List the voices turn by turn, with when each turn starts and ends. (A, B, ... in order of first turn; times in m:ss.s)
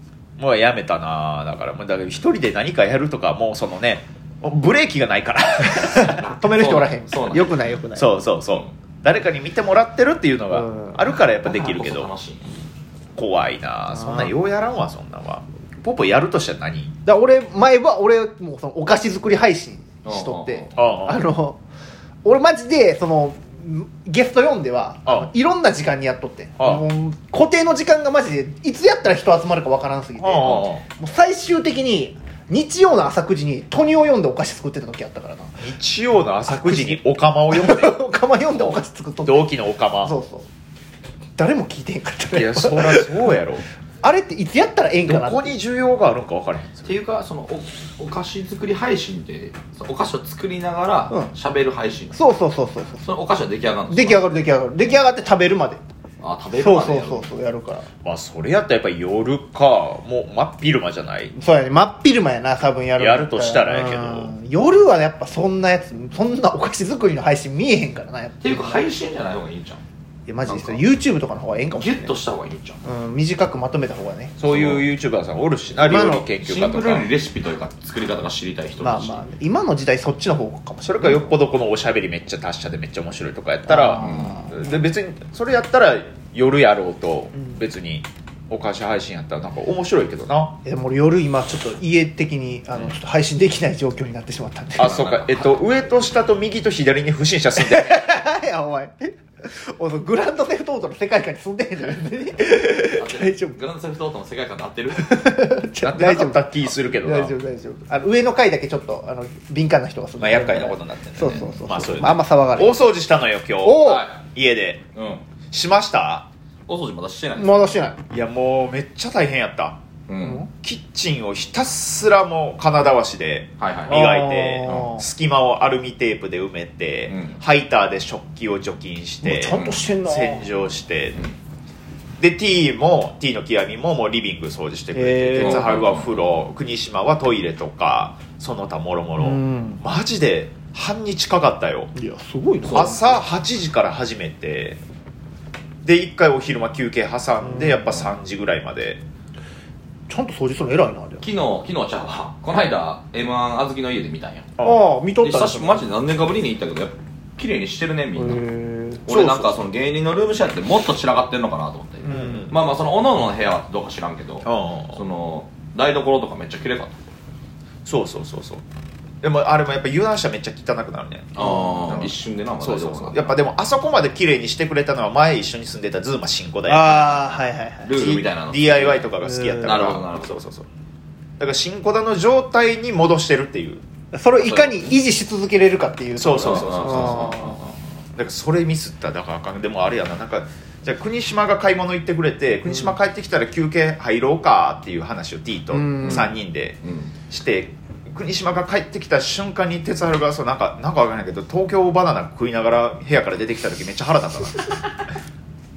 0:00.4-0:06.3 A
0:05.8-0:08.2 B
0:06.3-0:07.8 C
0:07.9-0:12.1 A
0:10.5-0:11.0 B
0:11.4-0:12.4 C
0:13.2-0:16.9 A
0:13.9-0:14.3 B
0:17.0-0:21.6 B
0:20.0-0:20.7 C
0:20.8-0:21.3 A
0:22.2-0:35.6 B
0:25.0-0:25.3 A
0:26.6-0:26.8 A
0:30.2-0:30.8 A
0:30.4-0:30.7 C
0:35.6-0:38.0 A
0:36.5-0:40.5 B
0:38.5-0:40.1 A
0:41.4-0:43.3 B
0:42.3-0:43.6 A
0:44.0-0:45.6 B
0:45.0-0:47.0 A
0:46.8-0:52.2 C
0:52.1-0:53.0 B
0:53.0-0:54.2 C
0:53.9-0:55.8 B
0:56.2-0:57.3 C
0:56.5-0:57.9 B
0:58.0-1:01.3 A
1:01.3-1:08.9 B
1:03.0-1:04.3 A
1:08.4-1:09.8 C
1:10.3-1:12.2 B
1:10.4-1:10.9 C
1:11.7-1:12.8 C
1:12.8-1:14.4 B
1:14.4-1:17.1 A
1:14.4-1:14.9 C
1:15.8-1:16.3 B
1:16.4-1:19.2 C
1:18.8-1:21.4 B
1:20.8-1:30.6 A
1:23.7-1:24.7 B
1:24.0-1:24.4 C
1:30.6-1:34.9 B
1:34.8-1:38.0 A
1:34.8-1:35.7 C
1:37.6-1:43.6 B
1:42.8-1:45.2 C
1:44.9-1:52.8 B
1:45.8-1:47.4 A
1:50.2-1:54.8 A
1:53.6-1:54.0 B
1:53.8-1:54.2 C
1:54.9-1:55.2 C
1:55.5-1:56.3 A
1:56.7-1:57.9 C
1:57.3-1:58.0 B
1:58.1-1:59.8 A
2:00.1-2:00.4 C
2:00.2-2:00.5 B
2:00.5-2:11.2 A
2:03.6-2:04.1 C
2:03.9-2:05.0 B
2:04.6-2:04.9 C
2:07.1-2:07.4 C
2:09.2-2:10.5 B
2:09.5-2:09.9 C
2:12.2-2:21.9 A
2:14.9-2:15.6 B
2:15.4-2:16.5 C
2:19.2-2:19.8 B
2:21.9-2:23.2 B
2:22.6-2:23.0 C
2:22.7-2:24.8 A
2:25.8-2:29.0 A
2:27.4-2:28.0 B
2:30.1-2:31.2 B
2:31.2-2:34.5 C
2:34.6-2:34.9 A
2:34.6-2:35.9 B
2:35.2-2:38.4 C
2:38.1-2:39.5 B
2:39.0-2:47.0 C
2:42.1-2:42.5 B
2:42.1-2:42.6 A
2:44.4-2:45.0 A
2:47.8-2:48.6 A
2:49.2-2:57.3 A
2:51.3-2:53.4 C
2:56.6-2:58.0 B
2:57.8-3:00.4 C
2:57.9-3:00.7 A
2:59.2-2:59.9 B
3:01.4-3:03.8 A
3:04.1-3:07.6 B
3:04.3-3:05.0 C
3:06.1-3:07.6 A
3:06.4-3:07.7 C
3:08.2-3:24.7 A
3:15.7-3:16.3 B
3:16.0-3:16.3 C
3:16.8-3:17.1 C